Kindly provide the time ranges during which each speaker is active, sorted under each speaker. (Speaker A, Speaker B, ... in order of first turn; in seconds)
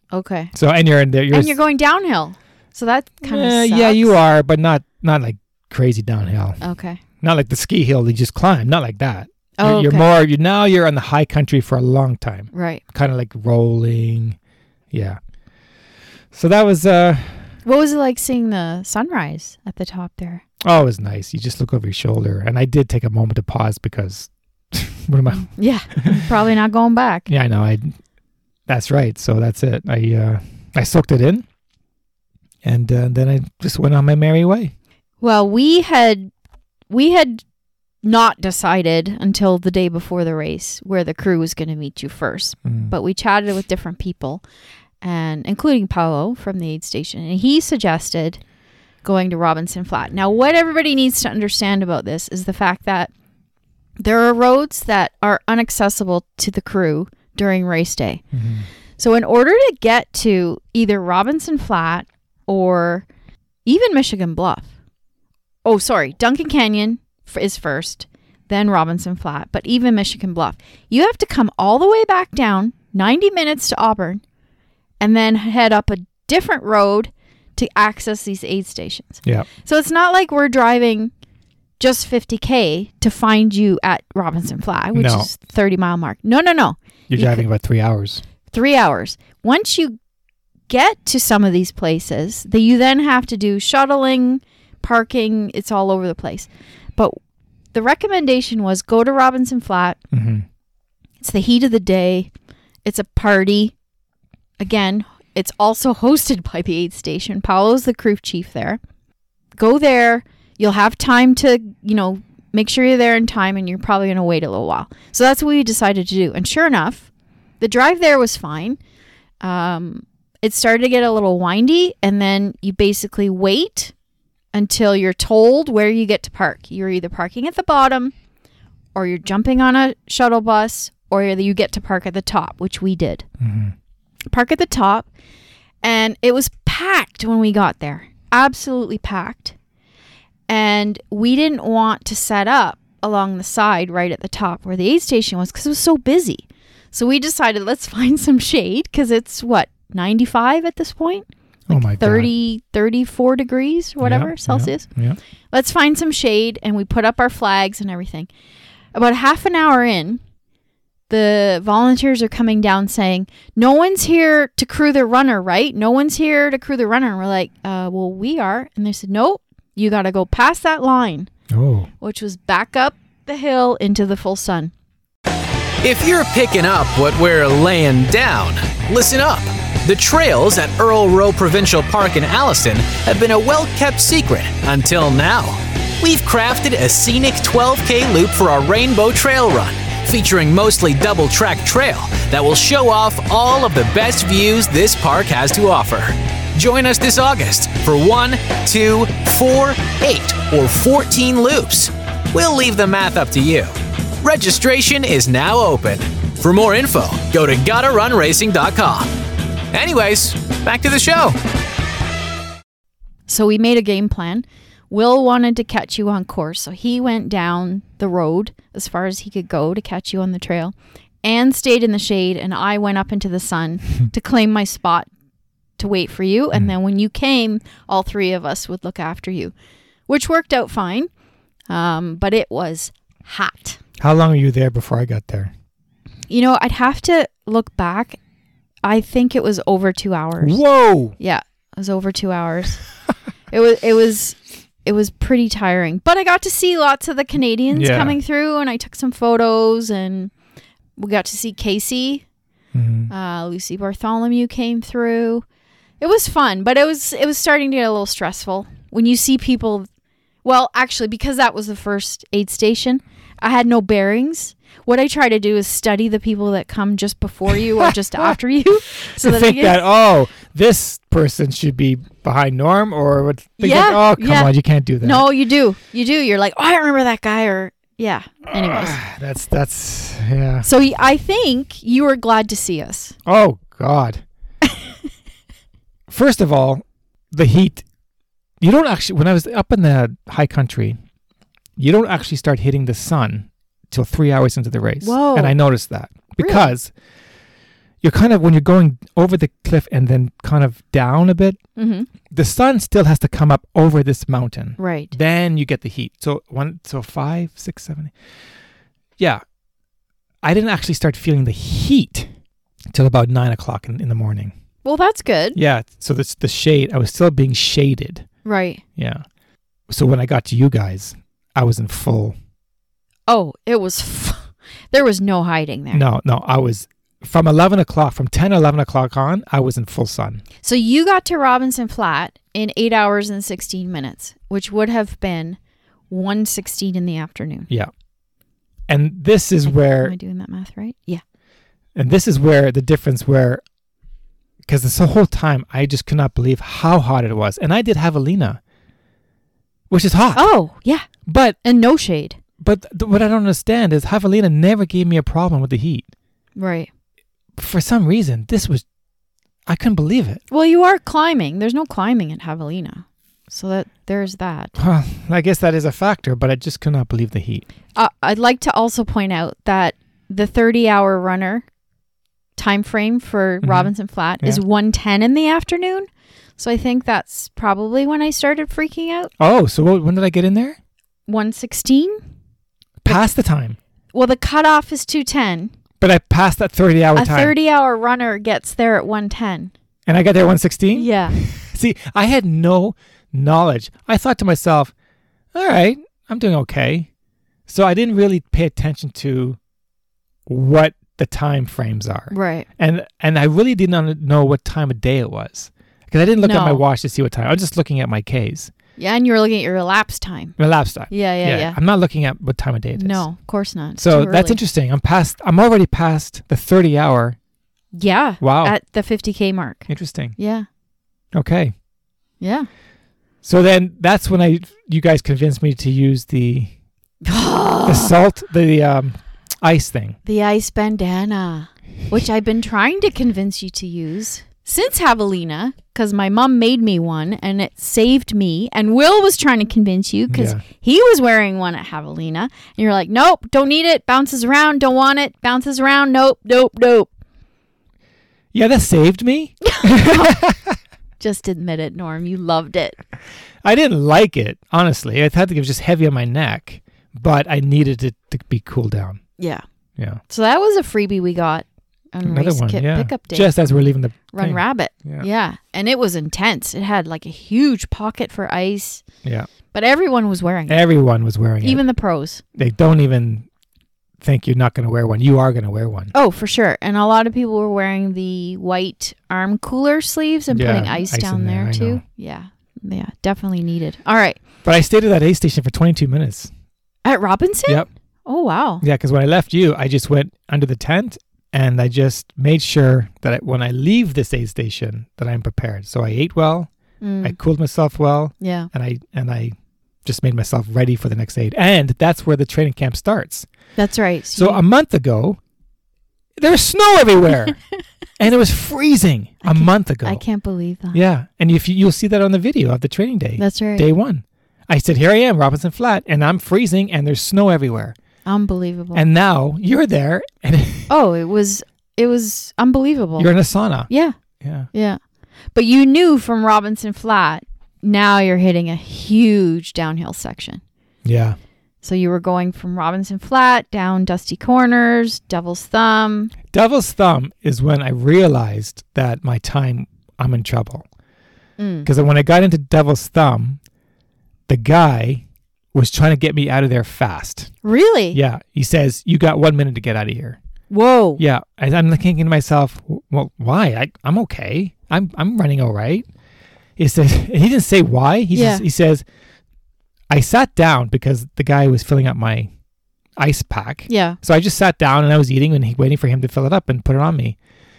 Speaker A: 0.1-0.5, 1.3-4.2, 6.6-7.0, 9.6-10.1, 12.5-12.8, 17.6-20.4, 25.5-27.3, 35.2-36.3, 36.9-37.4, 38.0-44.4, 45.0-48.4, 49.0-53.1, 54.0-58.2, 59.0-63.0, 63.6-64.7, 65.6-74.2, 75.0-81.1, 81.8-87.4, 88.5-90.0, 90.7-97.2, 97.7-100.0, 101.2-102.3, 102.8-103.7, 104.6-108.8, 109.5-117.1, 117.6-118.8, 119.4-123.9, 124.5-128.1, 128.9-133.2, 134.3-135.1, 135.8-139.5, 140.5-154.9, 155.5-158.3, 158.9-160.2, 161.1-171.3, 172.0-174.7, 213.3-225.1, 225.8-229.5, 230.1-231.1, 231.7-233.8, 236.3-238.2, 238.8-240.6, 241.2-242.8, 243.5-250.3, 250.9-252.2, 253.1-255.4, 256.0-259.9, 260.4-269.8, 273.6-279.0, 280.6-283.1, 295.0-295.6, 296.4-296.7, 301.8-302.1, 304.8-305.1, 314.8-315.6, 318.4-318.8, 323.3-326.0, 330.6-335.6, 336.1-337.7, 339.7-341.2, 350.3-351.1, 351.6-352.4, 356.6-356.9, 360.5-364.8, 367.9-371.6, 372.6-379.3, 381.3-382.2, 384.1-385.7, 387.1-389.7, 390.9-391.4, 402.3-402.7, 406.4-406.8, 409.0-410.6, 411.1-411.8, 412.9-414.6, 417.9-420.6, 422.4-422.7, 427.2-428.1, 430.2-447.1, 449.6-450.4, 451.2-453.0, 459.4-459.6, 460.3-463.7, 464.3-469.0, 469.7-470.8, 471.6-472.4, 476.1-484.4, 487.0-488.8, 497.0-497.4, 498.4-498.7, 503.8-504.6, 509.4-511.0, 513.4-513.9, 518.2-519.0, 520.9-523.3, 523.9-524.1, 524.7-525.0, 525.5-530.6, 531.8-536.3, 541.6-541.9, 547.6-548.2, 550.7-551.2, 558.3-558.6, 563.9-564.2
Speaker B: 0.5-1.6, 3.2-6.6, 7.2-14.4, 14.9-15.2, 16.3-17.4, 20.6-26.2, 27.3-28.0, 28.7-31.4, 32.6-34.7, 42.6-42.9, 58.3-58.6, 84.9-85.3, 87.1-88.2, 100.1-100.4, 133.4-133.7, 151.7-152.3, 154.0-155.2, 171.5-171.9, 234.0-235.5, 240.4-241.1, 247.7-248.2, 252.7-253.1, 267.8-268.4, 269.1-275.3, 278.5-280.7, 283.2-284.2, 286.1-287.8, 288.6-291.0, 291.8-296.9, 298.0-301.6, 302.3-308.1, 310.4-312.3, 312.9-314.5, 315.6-318.2, 319.0-319.2, 319.9-322.4, 325.9-330.4, 338.9-340.1, 341.9-343.6, 344.6-348.6, 349.9-350.5, 351.2-351.6, 352.6-356.1, 357.6-358.8, 359.6-360.4, 364.8-367.7, 373.6-374.6, 379.4-380.8, 383.0-383.8, 386.0-387.5, 390.1-394.9, 395.5-397.1, 397.7-399.6, 400.5-408.7, 410.6-413.2, 414.0-417.4, 418.4-418.7, 419.9-420.3, 421.3-421.7, 423.4-426.7, 427.9-430.2, 440.3-440.6, 448.5-450.7, 453.6-459.2, 462.2-465.3, 470.7-471.8, 472.5-473.5, 474.2-476.1, 480.5-482.0, 484.6-486.5, 488.8-496.7, 497.2-503.5, 504.3-505.4, 506.4-507.6, 508.2-510.2, 510.9-518.0, 518.9-520.9, 523.2-523.9, 524.4-524.7, 531.0-531.4, 536.5-540.9, 541.8-543.6, 544.5-547.5, 548.1-550.4, 551.2-556.1, 556.8-559.0, 560.1-562.5, 563.2-567.4
Speaker C: 175.8-209.1, 209.7-211.4